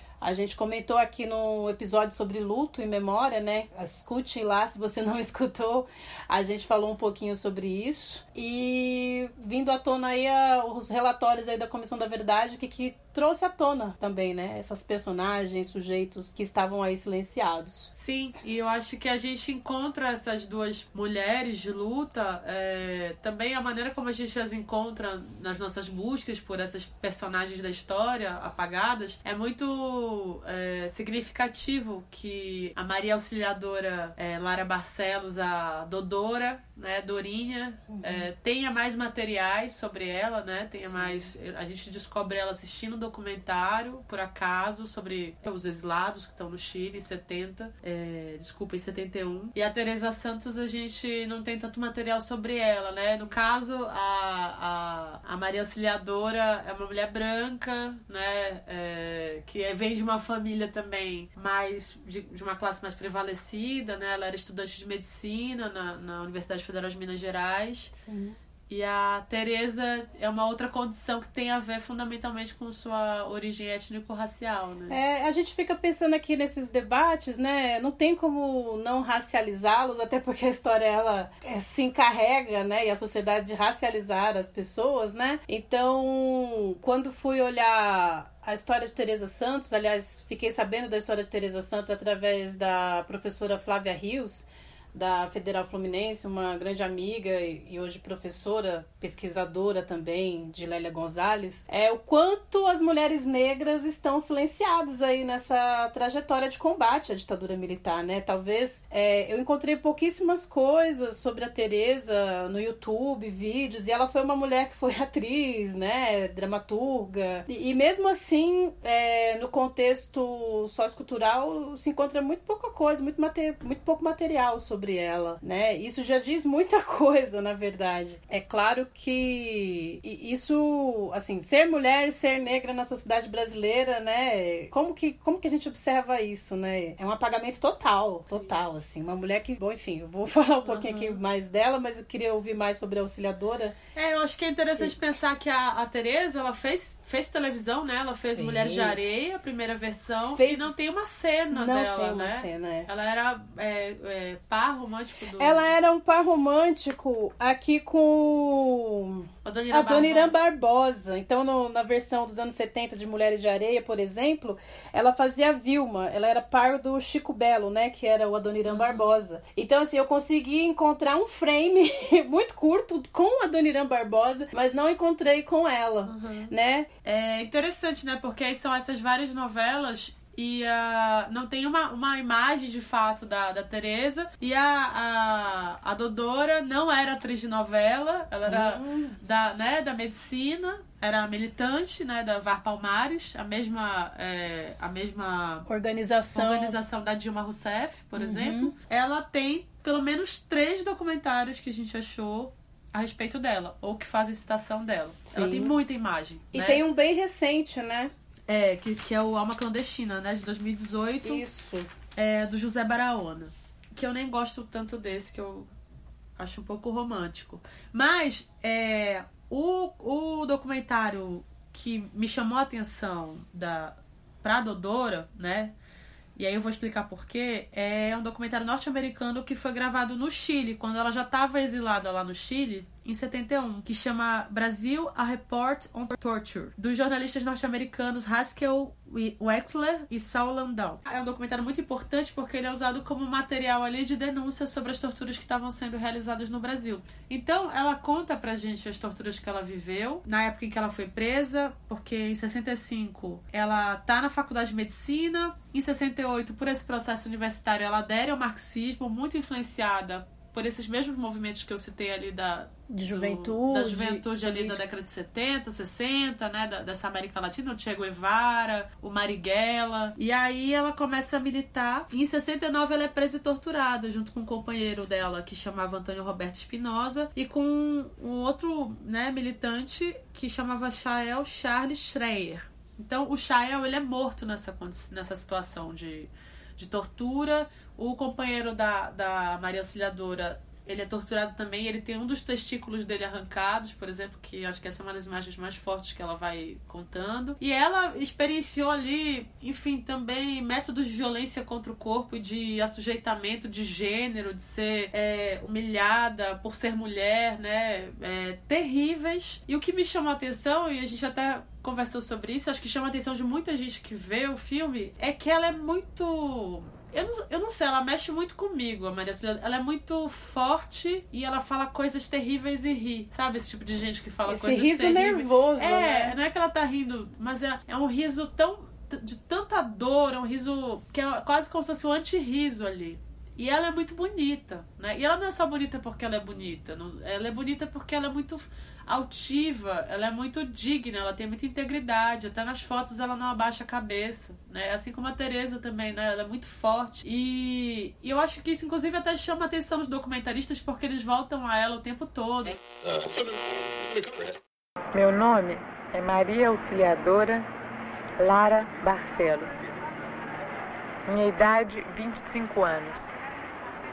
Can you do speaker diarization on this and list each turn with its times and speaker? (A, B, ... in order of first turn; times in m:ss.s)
0:00.2-0:17.9 A
0:18.0-1:07.9 B
0:37.9-0:38.3 A
0:40.8-0:41.3 A
1:08.0-1:08.4 A
1:08.7-1:15.0 B
1:14.9-2:23.8 A
2:20.6-2:21.2 B
2:23.9-2:35.7 B
2:28.3-2:29.0 A
2:30.3-2:30.7 A
2:31.5-2:32.9 A
2:35.4-2:56.9 A
2:39.4-2:40.3 B
2:48.6-2:49.1 B
2:56.1-2:56.5 B
2:57.0-3:15.7 B
3:08.4-3:09.2 A
3:15.7-3:16.8 A
3:16.3-3:26.8 B
3:18.2-3:18.7 A
3:25.3-3:25.8 A
3:26.5-3:28.1 A
3:28.5-3:31.4 B
3:31.2-3:31.9 A
3:32.2-3:35.7 B
3:36.4-3:45.7 B
3:46.4-5:52.8 B
4:22.9-4:24.8 A
5:24.5-5:26.4 A
5:55.1-5:57.7 C
5:58.4-5:59.8 C
6:01.3-6:03.3 C